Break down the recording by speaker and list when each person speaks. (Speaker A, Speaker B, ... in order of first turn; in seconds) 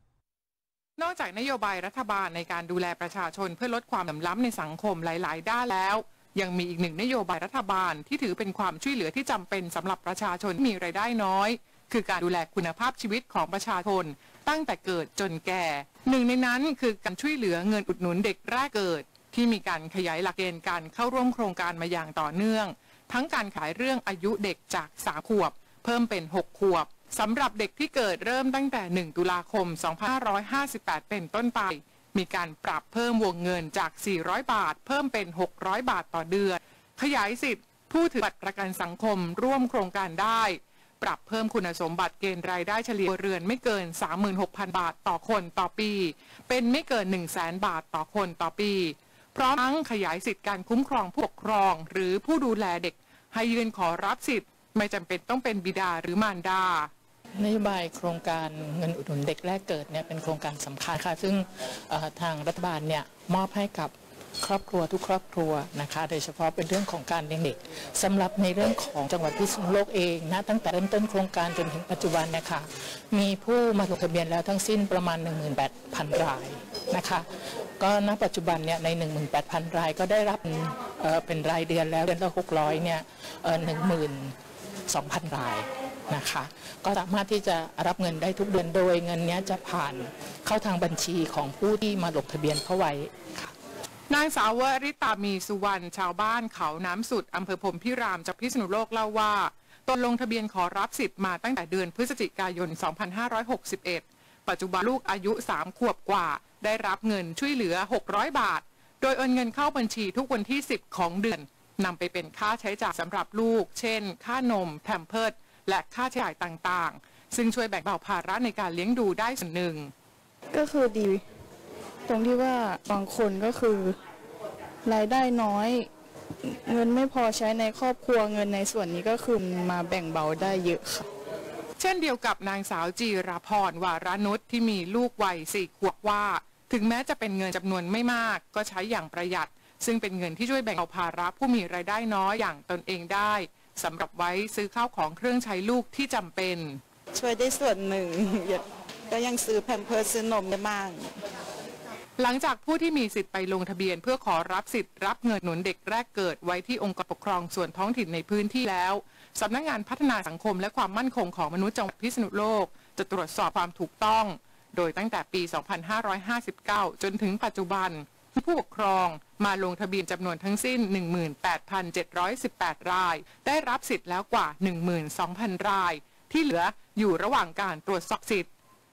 Speaker A: 1.0-56.9, 94.1-119.9, 131.8-146.8, 152.2-178.5
Speaker B: 57.4-77.3, 77.8-84.3, 84.9-93.5
Speaker C: 120.5-121.2, 122.1-124.0, 124.8-125.9, 126.4-131.1
Speaker D: 147.1-151.2